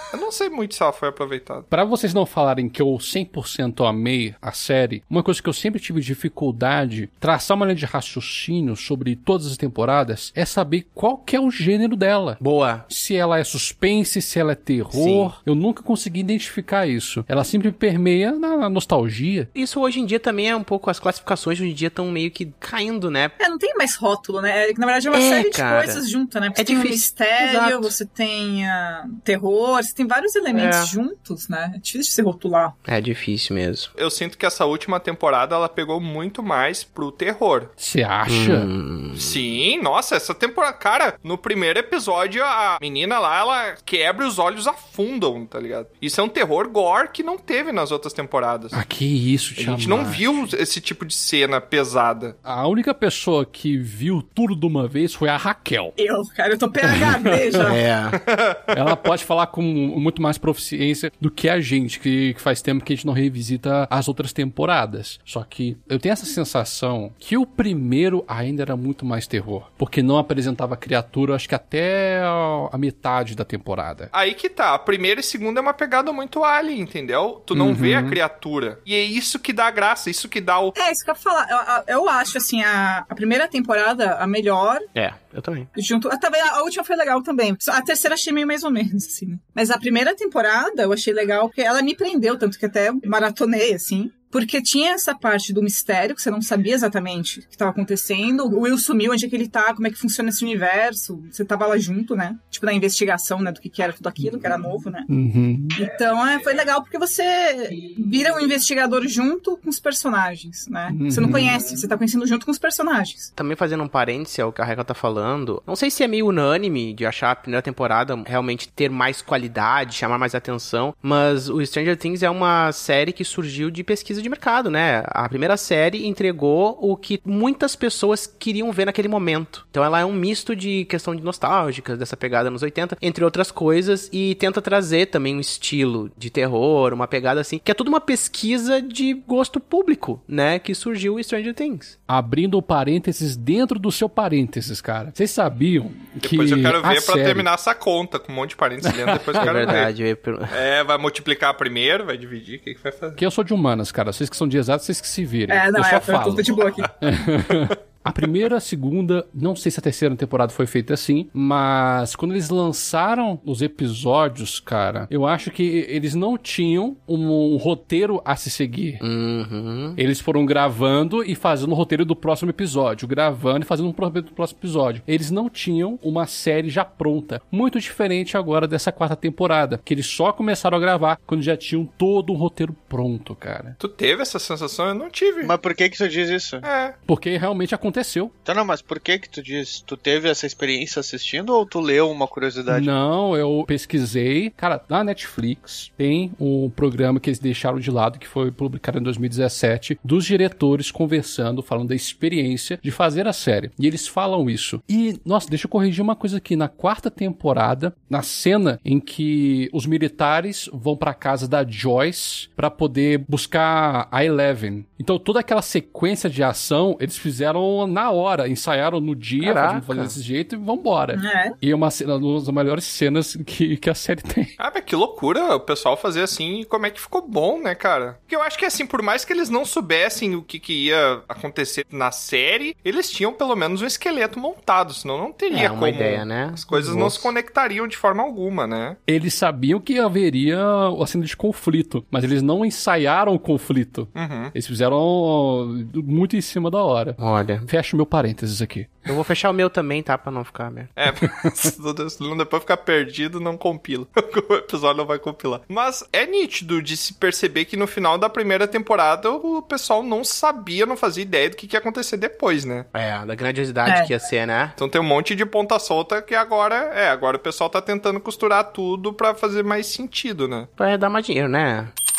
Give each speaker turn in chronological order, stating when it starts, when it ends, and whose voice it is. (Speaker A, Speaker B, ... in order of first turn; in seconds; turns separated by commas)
Speaker A: 0.1-1.7, Speaker B: 1.7-19.5, Speaker C: 12.4-12.9, Speaker C: 14.9-15.4, Speaker C: 19.6-23.4, Speaker D: 23.4-32.8, Speaker C: 25.1-28.0, Speaker C: 30.5-30.9, Speaker C: 32.9-33.9, Speaker A: 34.0-37.7, Speaker B: 37.8-38.7, Speaker C: 38.3-39.4, Speaker A: 39.2-48.8, Speaker B: 48.7-50.5, Speaker A: 49.6-52.4, Speaker B: 52.5-56.0, Speaker D: 56.0-57.8, Speaker B: 56.9-57.6, Speaker C: 57.6-58.2, Speaker A: 58.2-59.0, Speaker B: 58.7-74.1, Speaker A: 74.1-80.8, Speaker B: 77.6-78.1, Speaker D: 80.8-84.9, Speaker C: 85.0-85.7, Speaker D: 85.8-105.1, Speaker B: 105.1-105.8, Speaker D: 105.8-113.3, Speaker B: 110.9-111.6, Speaker C: 113.4-141.9, Speaker B: 142.1-147.5, Speaker A: 146.2-149.9, Speaker B: 148.9-149.7, Speaker C: 149.4-150.6, Speaker A: 150.5-153.2, Speaker B: 153.2-169.0, Speaker D: 155.5-156.9, Speaker C: 169.0-170.0, Speaker B: 170.0-183.8, Speaker A: 183.8-185.5, Speaker E: 185.4-186.7, Speaker A: 186.6-186.9, Speaker B: 187.1-188.3, Speaker E: 188.5-192.9, Speaker B: 192.7-224.5, Speaker C: 219.4-220.2, Speaker D: 221.2-221.6, Speaker A: 224.6-239.0, Speaker C: 235.5-237.3, Speaker B: 239.1-249.1, Speaker A: 244.2-244.5, Speaker C: 247.2-247.7, Speaker C: 249.1-250.9, Speaker A: 251.0-262.9, Speaker C: 262.9-264.8, Speaker A: 264.8-270.7, Speaker C: 270.8-271.9